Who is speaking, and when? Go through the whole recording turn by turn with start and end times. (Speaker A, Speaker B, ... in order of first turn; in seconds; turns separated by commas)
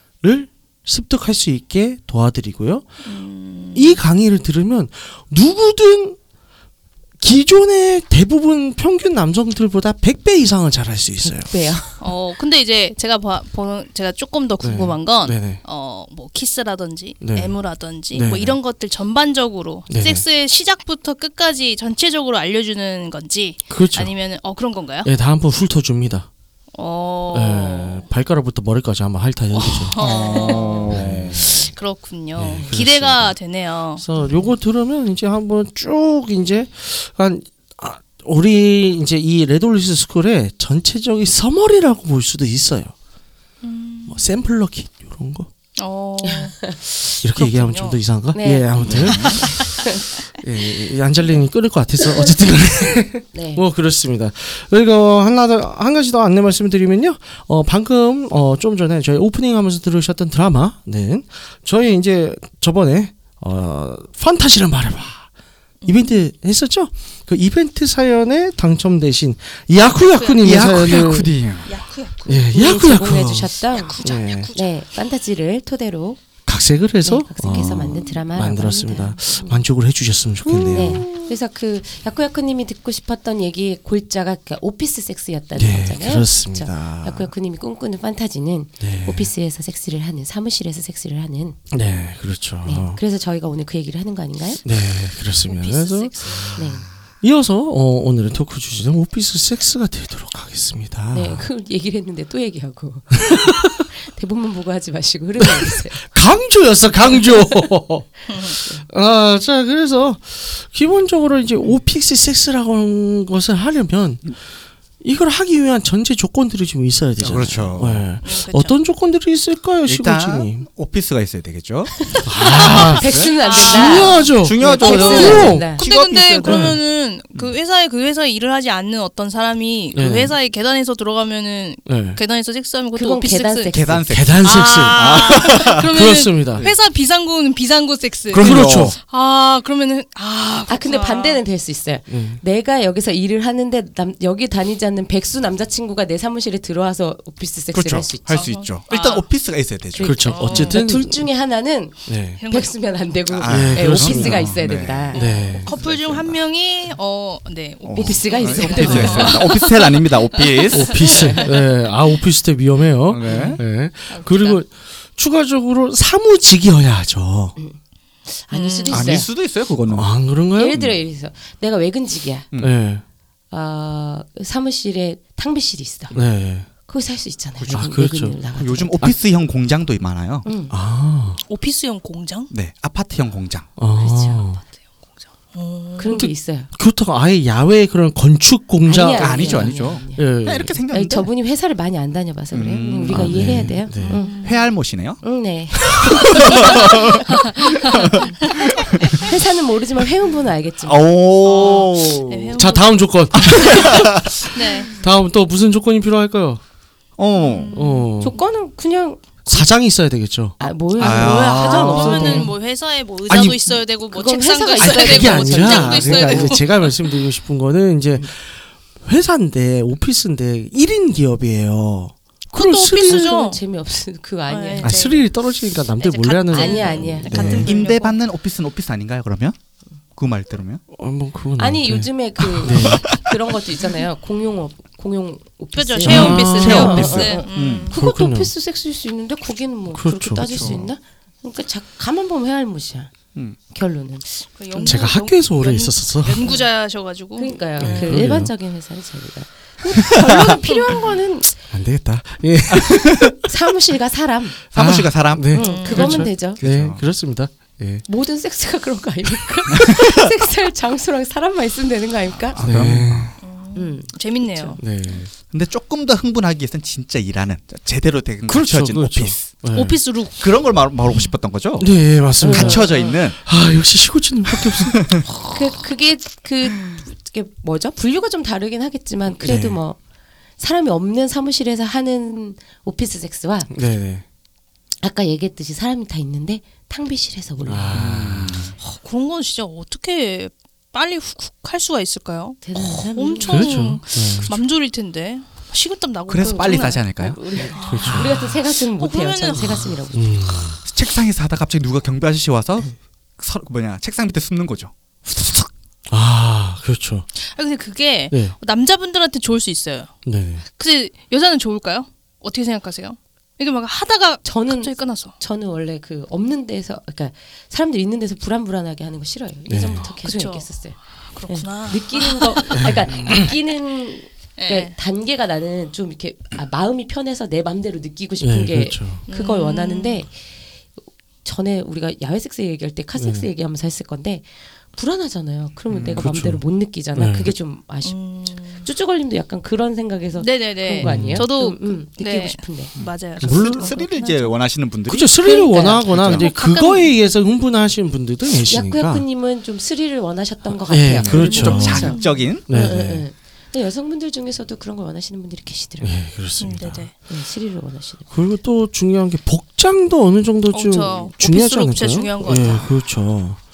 Speaker A: 0.2-2.9, Speaker B: 3.0-4.0, Speaker A: 3.8-6.2, Speaker A: 7.2-11.5, Speaker C: 11.2-12.0, Speaker B: 12.0-25.1, Speaker A: 14.6-15.6, Speaker A: 17.2-17.5, Speaker A: 18.1-18.6, Speaker A: 19.9-20.2, Speaker A: 23.7-24.1, Speaker A: 25.1-26.3, Speaker B: 26.7-28.1, Speaker A: 27.3-29.9, Speaker B: 29.6-34.0, Speaker D: 30.0-31.6, Speaker C: 30.1-30.9, Speaker A: 30.9-31.4, Speaker A: 32.4-33.4, Speaker A: 34.0-42.9, Speaker B: 43.6-44.3, Speaker A: 44.1-45.5, Speaker B: 45.8-48.0, Speaker C: 46.2-46.8, Speaker A: 47.2-49.6, Speaker C: 48.3-50.1, Speaker D: 48.8-49.4, Speaker B: 48.9-49.7, Speaker A: 50.4-65.3, Speaker C: 53.3-53.6, Speaker B: 65.8-66.1, Speaker A: 65.9-71.3, Speaker B: 70.0-71.0, Speaker D: 70.4-71.7, Speaker B: 71.7-72.8, Speaker A: 72.3-74.5, Speaker C: 72.5-74.0, Speaker B: 73.7-74.7, Speaker C: 74.5-76.2, Speaker A: 76.5-81.3, Speaker C: 77.0-79.7, Speaker C: 80.5-91.6, Speaker A: 85.6-87.3, Speaker A: 88.8-89.3, Speaker A: 91.7-93.0, Speaker C: 92.7-94.6, Speaker A: 94.7-96.5, Speaker B: 95.5-96.5, Speaker D: 96.3-96.8, Speaker C: 96.5-96.9, Speaker A: 97.2-101.5, Speaker C: 101.1-106.0, Speaker A: 106.0-114.4, Speaker B: 108.3-108.6, Speaker A: 115.0-120.7, Speaker D: 117.2-118.1, Speaker B: 118.2-118.8, Speaker D: 119.9-123.8, Speaker C: 122.1-125.8, Speaker A: 122.2-125.7, Speaker B: 122.5-133.7, Speaker D: 124.4-126.8, Speaker A: 126.5-126.8, Speaker A: 129.9-130.3, Speaker A: 131.9-132.2, Speaker C: 132.9-134.1, Speaker D: 133.7-136.8, Speaker A: 134.1-136.7, Speaker B: 134.4-141.4, Speaker D: 138.3-139.0, Speaker A: 138.4-139.0, Speaker C: 140.7-148.5, Speaker A: 142.1-142.4, Speaker D: 147.7-150.7, Speaker B: 148.3-149.3, Speaker C: 150.0-155.2, Speaker A: 150.0-151.3, Speaker B: 150.0-150.8, Speaker A: 152.1-152.4, Speaker B: 152.4-152.7, Speaker D: 153.3-155.2, Speaker A: 153.5-154.6, Speaker B: 155.1-161.5, Speaker A: 155.1-155.7, Speaker D: 155.8-156.4, Speaker D: 157.8-161.2, Speaker C: 157.9-159.6, Speaker A: 158.7-159.3, Speaker A: 160.7-167.6, Speaker C: 161.2-161.5, Speaker D: 163.1-163.6, Speaker C: 163.3-163.6, Speaker B: 164.1-164.6, Speaker C: 168.5-169.3, Speaker B: 168.5-169.2, Speaker D: 168.9-170.1, Speaker A: 169.9-171.0, Speaker C: 170.6-172.5, Speaker A: 172.6-173.0, Speaker C: 173.5-176.2, Speaker A: 176.1-176.7, Speaker C: 176.9-179.1, Speaker D: 177.6-178.0, Speaker A: 177.7-178.4, Speaker D: 178.5-180.5, Speaker C: 180.4-180.8, Speaker A: 180.7-181.4, Speaker B: 181.5-182.5, Speaker D: 182.5-183.7, Speaker A: 183.8-184.6, Speaker C: 184.0-184.5, Speaker B: 185.4-186.2, Speaker C: 186.0-186.7, Speaker A: 186.1-190.8, Speaker C: 188.9-190.2, Speaker D: 189.1-191.3, Speaker C: 190.9-194.5, Speaker D: 192.5-193.6, Speaker A: 193.1-194.2, Speaker B: 194.0-194.6, Speaker D: 194.4-195.2, Speaker C: 195.2-198.2, Speaker D: 196.1-197.3, Speaker B: 197.6-199.2, Speaker D: 197.9-198.2, Speaker C: 199.1-201.1, Speaker D: 200.8-202.6, Speaker B: 201.4-204.9, Speaker A: 202.6-204.5, Speaker D: 203.3-204.5, Speaker A: 205.0-206.6, Speaker D: 207.2-207.8, Speaker B: 207.4-208.4, Speaker A: 207.7-208.4, Speaker C: 208.2-209.7, Speaker A: 209.5-210.6, Speaker C: 210.6-212.5, Speaker D: 211.0-212.1, Speaker B: 211.0-216.9, Speaker A: 211.6-212.5, Speaker A: 213.3-213.6, Speaker C: 214.1-216.6, Speaker A: 214.8-223.3, Speaker B: 222.5-223.6, Speaker C: 223.0-225.0, Speaker B: 224.5-225.3, Speaker A: 224.8-227.7, Speaker B: 226.0-228.2, Speaker C: 226.5-227.5, Speaker D: 227.3-229.6, Speaker D: 230.1-230.8, Speaker A: 230.9-233.1, Speaker C: 231.6-243.1, Speaker D: 232.6-233.3, Speaker B: 235.8-237.9, Speaker A: 236.0-237.3, Speaker D: 236.0-237.9, Speaker A: 237.9-238.5, Speaker A: 239.9-240.8, Speaker D: 240.4-240.9, Speaker C: 243.7-245.1, Speaker B: 244.6-248.2, Speaker A: 244.8-246.5, Speaker C: 246.4-246.7, Speaker C: 247.4-251.6, Speaker A: 247.8-248.5, Speaker D: 250.0-250.6, Speaker B: 250.7-251.0, Speaker A: 251.7-253.5, Speaker D: 252.7-253.4, Speaker C: 253.4-254.6, Speaker D: 254.7-257.0, Speaker A: 254.8-258.1, Speaker B: 255.5-256.2, Speaker C: 255.5-256.6, Speaker C: 258.1-262.6, Speaker D: 259.8-260.2, Speaker D: 262.5-263.4, Speaker A: 262.6-263.3, Speaker B: 263.4-265.2, Speaker C: 263.8-264.8, Speaker A: 264.8-265.3, Speaker D: 265.5-269.5, Speaker A: 268.5-270.0, Speaker B: 269.7-270.4, Speaker D: 270.4-273.4, Speaker A: 271.8-275.6, Speaker C: 272.4-273.1, Speaker D: 274.7-275.2, Speaker C: 275.5-280.0, Speaker A: 279.4-279.8, Speaker C: 280.6-283.7, Speaker A: 283.7-284.2, Speaker C: 285.0-288.2, Speaker A: 287.6-288.6, Speaker D: 287.9-288.8, Speaker B: 288.8-297.0, Speaker C: 292.6-293.8, Speaker A: 293.5-294.5, Speaker D: 296.3-297.4, Speaker C: 296.4-300.4, Speaker B: 297.7-299.9, Speaker A: 297.8-298.5, Speaker A: 300.1-300.8, Speaker D: 300.9-305.7, Speaker A: 306.1-307.3, Speaker B: 307.4-315.3, Speaker A: 310.3-310.6, Speaker C: 314.4-330.3, Speaker A: 319.7-320.1, Speaker B: 319.9-320.7, Speaker B: 321.3-322.8, Speaker A: 322.7-323.5, Speaker B: 324.6-324.9, Speaker A: 328.4-329.2, Speaker B: 329.3-330.2, Speaker C: 331.4-338.2, Speaker A: 333.2-333.5, Speaker D: 335.9-336.3, Speaker A: 336.1-336.6, Speaker A: 337.1-337.5, Speaker B: 338.0-338.9, Speaker C: 338.8-342.9, Speaker B: 340.4-344.5, Speaker A: 341.0-341.5, Speaker D: 343.0-345.3, Speaker A: 343.4-343.9, Speaker A: 345.1-349.2, Speaker C: 345.4-346.3, Speaker D: 346.1-346.5, Speaker B: 346.2-347.1, Speaker C: 348.6-356.2, Speaker A: 350.9-352.1, Speaker D: 351.1-352.6, Speaker B: 351.4-352.4, Speaker A: 352.7-353.2, Speaker A: 356.0-357.1, Speaker B: 356.6-357.1, Speaker C: 357.3-358.3, Speaker A: 358.3-363.6, Speaker B: 360.7-363.0